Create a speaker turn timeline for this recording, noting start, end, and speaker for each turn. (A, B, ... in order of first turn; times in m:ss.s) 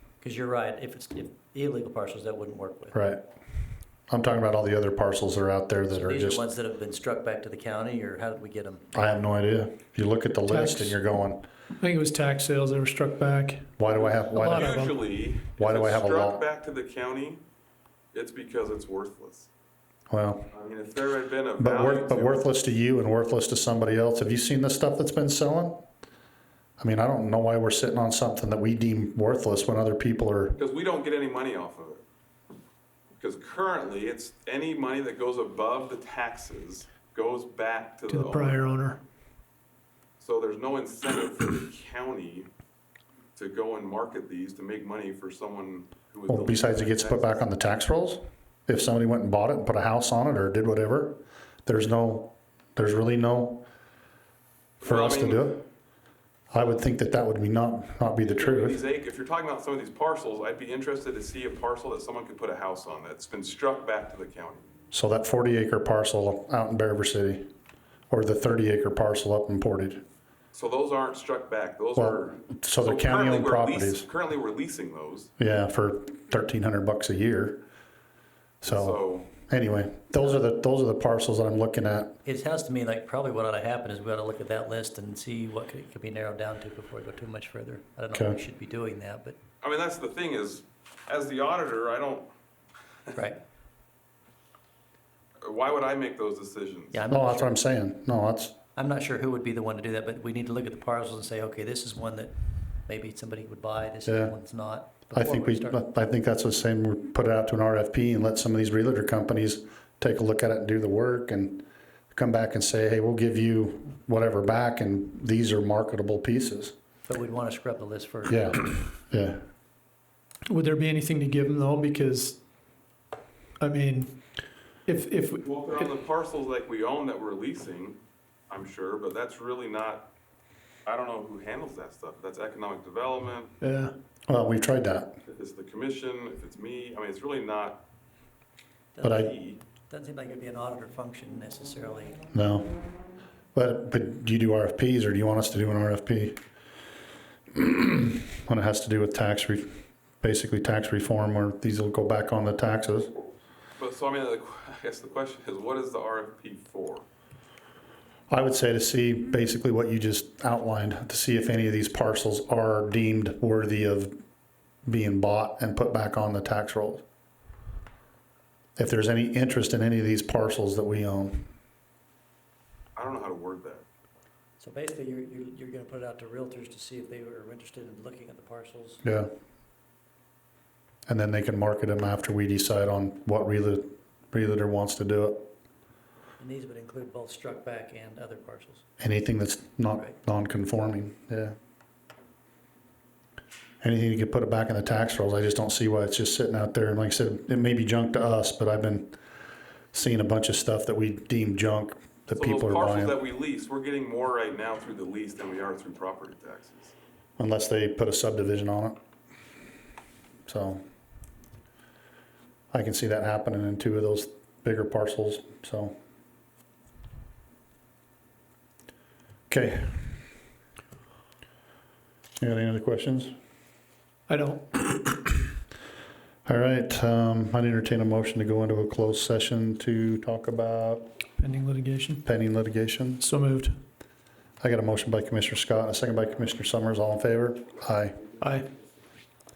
0:00.2-0:03.0 A
0:02.9-0:03.2 B
0:04.1-0:06.5 B
0:05.9-0:08.9 A
0:08.9-0:11.4 B
0:10.5-0:11.0 C
0:11.8-0:15.0 C
0:13.8-0:14.8 B
0:14.5-0:17.4 D
0:15.6-0:16.4 B
0:18.1-0:19.5 D
0:20.1-0:20.5 B
0:20.5-0:22.5 D
0:21.6-0:25.8 B
0:26.8-0:30.6 B
0:30.6-0:32.0 D
0:33.2-0:38.7 D
0:38.1-0:39.0 C
0:40.2-0:42.5 D
0:43.4-0:47.5 D
0:46.3-0:53.6 B
0:54.8-0:55.6 D
0:54.8-0:55.6 B
0:56.5-0:58.8 B
0:58.2-1:04.7 D
1:04.9-1:07.4 B
1:08.1-1:10.0 B
1:10.5-1:15.3 D
1:12.0-1:14.1 B
1:15.4-1:17.6 B
1:18.6-1:22.2 B
1:18.6-1:19.4 D
1:22.2-1:29.4 A
1:28.1-1:28.4 B
1:29.6-1:32.3 D
1:33.2-1:33.4 A
1:35.4-1:37.0 D
1:36.9-1:37.6 A
1:37.1-1:38.5 B
1:38.8-1:42.3 A
1:42.9-1:45.8 A
1:44.1-1:44.4 B
1:45.1-1:56.7 B
1:57.0-1:58.7 A
1:58.3-1:59.4 B
2:00.5-2:02.4 C
2:03.6-2:04.1 C
2:04.9-2:05.9 C
2:05.4-2:08.0 D
2:08.5-2:10.1 D
2:10.8-2:13.5 D
2:13.6-2:13.9 C
2:14.3-2:15.1 B
2:15.3-2:17.8 D
2:19.0-2:22.2 A
2:19.0-2:19.3 B
2:19.3-2:19.6 D
2:22.3-2:22.7 B
2:23.5-2:26.4 B
2:27.5-2:33.1 B
2:33.8-2:37.0 D
2:38.3-2:44.2 B
2:44.9-2:47.0 B
2:48.8-2:51.5 B
2:53.0-2:53.8 D
2:54.6-2:59.0 A
2:59.0-2:59.3 B
3:01.1-3:05.5 B
3:06.4-3:08.9 A
3:09.0-3:11.6 B
3:13.8-3:19.2 B
3:19.9-3:23.2 B
3:22.3-3:27.0 D
3:27.4-3:29.0 B
3:30.5-3:30.8 B
3:32.7-3:36.0 B
3:39.5-3:40.1 B
3:42.4-3:43.3 B
3:44.3-3:45.3 C
3:46.4-3:51.1 B
3:51.4-3:52.2 C
3:52.2-3:53.2 B
3:53.2-3:53.8 C
3:54.6-3:58.2 B
3:58.4-3:58.7 C